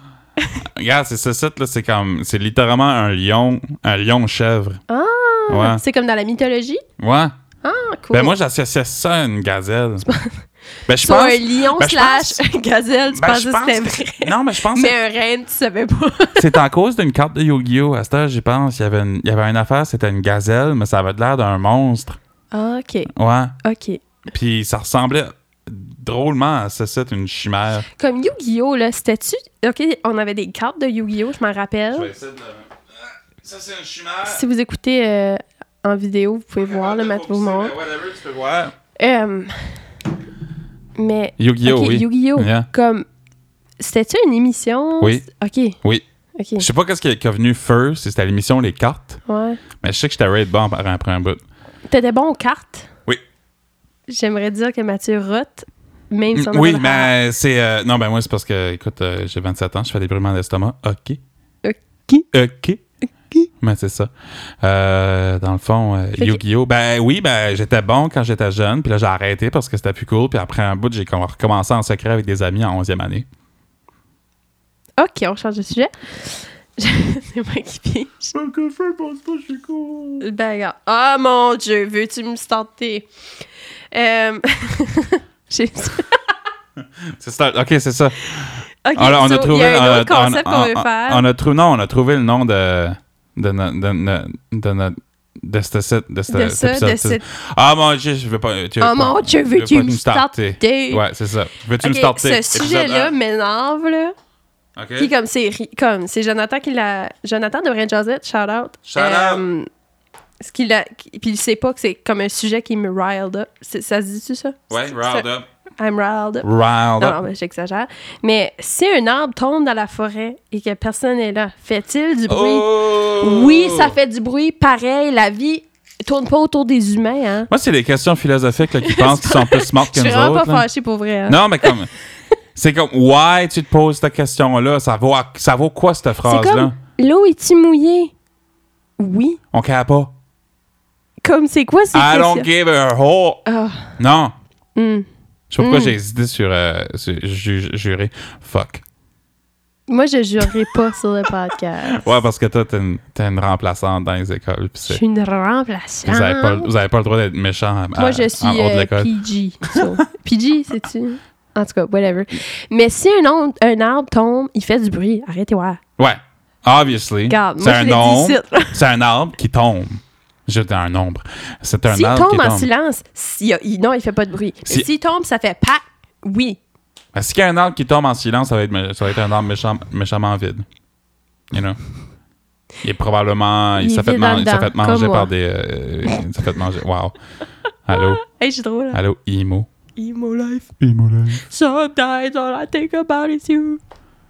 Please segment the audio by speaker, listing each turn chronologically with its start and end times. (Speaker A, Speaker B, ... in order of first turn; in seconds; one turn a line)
Speaker A: 0.6-4.8
Speaker B: 4.9-6.8
Speaker A: 5.5-5.8
Speaker A: 7.0-7.3
Speaker B: 7.6-8.4
Speaker A: 8.1-10.1
Speaker B: 10.0-10.4
Speaker A: 10.9-12.4
Speaker B: 11.0-16.6
Speaker A: 13.1-15.0
Speaker A: 16.4-22.2
Speaker B: 22.5-23.1
Speaker A: 23.1-23.6
Speaker B: 23.6-24.0
Speaker A: 24.3-27.9
Speaker B: 28.0-32.1
Speaker A: 31.9-34.4
Speaker B: 34.2-37.8
Speaker A: 36.6-38.8
Speaker B: 39.0-39.8
Speaker B: 41.0-43.1
Speaker A: 41.4-42.7
Speaker B: 43.8-45.8
Speaker A: 45.0-45.2
Speaker B: 46.4-46.7
Speaker A: 46.6-49.2
Speaker B: 49.3-49.6
Speaker A: 49.8-51.4
Speaker B: 51.9-52.9
Speaker B: 54.1-57.1
Speaker A: 56.3-61.2
Speaker B: 61.6-62.3
Speaker A: 62.3-64.1
Speaker A: 64.6-73.3
Speaker B: 75.0-78.3
Speaker A: 78.3-80.3
Speaker B: 80.2-83.1
Speaker B: 83.9-86.3
Speaker A: 87.0-103.1
Speaker B: 88.8-91.3
Speaker B: 96.3-97.2
Speaker B: 98.8-101.0
Speaker B: 101.8-104.2
Speaker A: 104.8-105.1
Speaker B: 105.0-109.7
Speaker A: 108.9-109.4
Speaker B: 110.4-115.3
Speaker A: 114.7-115.5
Speaker B: 115.8-127.5
Speaker A: 116.4-117.2
Speaker A: 122.3-124.0
Speaker A: 127.5-130.7
Speaker B: 128.8-131.8
Speaker A: 131.3-131.9
Speaker A: 132.6-136.8
Speaker B: 136.2-138.1
Speaker B: 139.0-139.4
Speaker A: 139.5-140.1
Speaker B: 141.2-142.5
Speaker A: 141.9-143.4
Speaker B: 143.5-144.0
Speaker A: 144.0-144.3
Speaker B: 144.8-145.1
Speaker A: 145.5-148.8
Speaker B: 145.6-146.0
Speaker B: 149.9-152.2
Speaker A: 150.4-150.7
Speaker A: 151.9-155.0
Speaker B: 154.9-156.7
Speaker A: 156.1-159.1
Speaker B: 157.9-165.8
Speaker A: 166.0-172.7
Speaker B: 167.3-168.8
Speaker B: 171.9-176.6
Speaker A: 177.1-180.7
Speaker A: 181.5-181.8
Speaker A: 182.8-187.2
Speaker B: 183.8-185.3
Speaker A: 187.9-188.2
Speaker B: 187.9-189.0
Speaker A: 188.9-189.7
Speaker B: 190.0-190.7
Speaker A: 190.8-191.4
Speaker B: 191.4-193.8